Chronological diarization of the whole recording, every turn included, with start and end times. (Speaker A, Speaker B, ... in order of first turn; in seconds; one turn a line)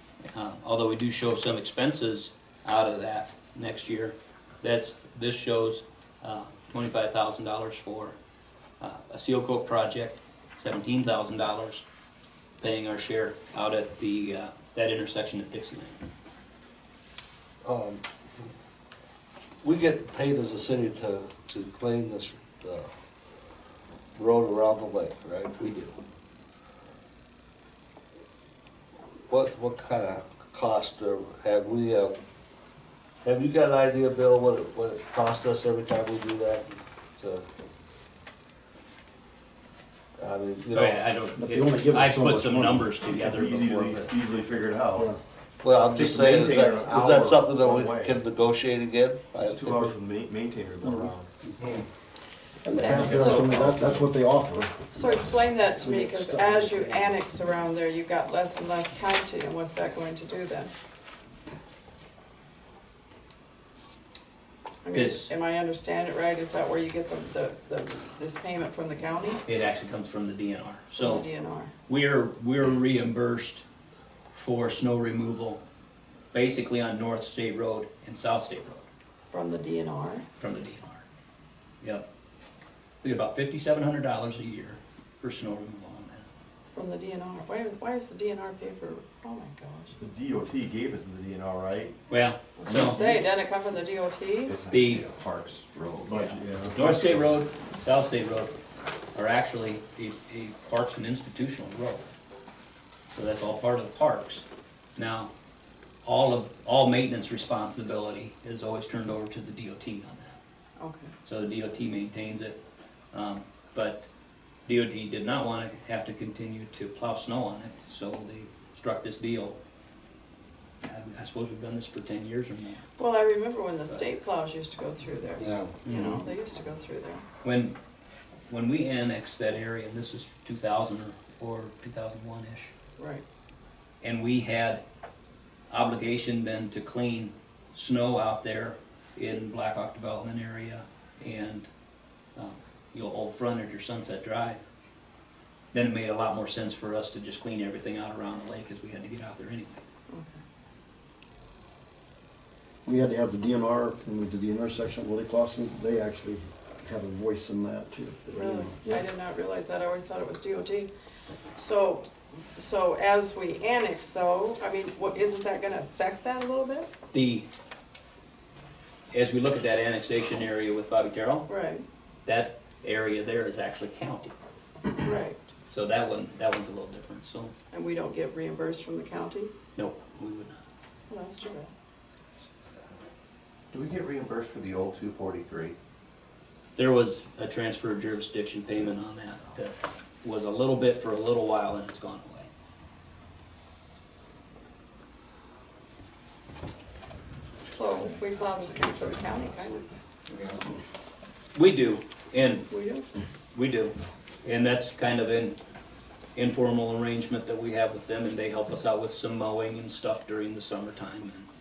Speaker A: 0.3-8.2
Speaker A: 8.8-11.8
Speaker A: 12.6-16.0
Speaker B: 17.6-18.5
Speaker B: 19.6-22.9
Speaker B: 24.1-25.6
Speaker A: 25.6-26.0
Speaker B: 29.3-32.1
Speaker B: 33.2-37.4
Speaker B: 40.2-41.0
Speaker A: 40.7-44.1
Speaker C: 41.4-42.9
Speaker D: 43.0-45.1
Speaker B: 45.6-50.0
Speaker D: 45.9-48.2
Speaker D: 49.4-51.3
Speaker C: 50.8-51.1
Speaker C: 52.6-57.2
Speaker E: 52.7-53.6
Speaker B: 53.0-53.8
Speaker E: 54.9-60.7
Speaker E: 64.8-69.4
Speaker A: 64.9-65.3
Speaker A: 69.5-71.2
Speaker E: 71.0-71.7
Speaker A: 71.9-73.6
Speaker A: 74.3-75.6
Speaker A: 76.3-78.8
Speaker E: 79.3-80.2
Speaker A: 80.4-81.0
Speaker A: 81.8-82.1
Speaker A: 83.0-86.3
Speaker E: 86.7-89.9
Speaker D: 90.0-92.0
Speaker A: 92.1-93.1
Speaker E: 92.5-94.5
Speaker F: 94.4-97.2
Speaker A: 94.7-95.0
Speaker D: 96.1-96.8
Speaker A: 96.8-98.5
Speaker A: 99.1-102.1
Speaker A: 103.1-105.3
Speaker A: 106.0-110.4
Speaker E: 110.8-111.1
Speaker A: 111.2-112.6
Speaker A: 113.1-114.1
Speaker A: 114.7-119.6
Speaker A: 120.8-122.8
Speaker E: 123.0-127.2
Speaker B: 125.4-125.7
Speaker A: 125.8-126.2
Speaker A: 127.4-127.8
Speaker A: 128.5-132.7
Speaker E: 133.0-133.2
Speaker A: 134.0-134.8
Speaker A: 135.7-141.7
Speaker A: 142.3-144.6
Speaker A: 145.7-149.8
Speaker E: 150.1-150.4
Speaker C: 152.8-159.0
Speaker E: 158.3-160.9
Speaker E: 161.6-166.9
Speaker A: 167.1-167.5
Speaker A: 169.1-171.5
Speaker E: 171.5-171.8
Speaker A: 172.2-174.3
Speaker E: 175.0-175.4
Speaker A: 175.7-177.5
Speaker E: 177.7-179.5
Speaker A: 179.8-180.6
Speaker E: 181.1-181.7
Speaker F: 183.7-185.8
Speaker A: 186.8-192.5
Speaker E: 197.7-199.8
Speaker F: 198.0-200.7
Speaker A: 201.5-202.7
Speaker E: 202.7-203.1
Speaker A: 203.5-205.6
Speaker A: 206.3-211.5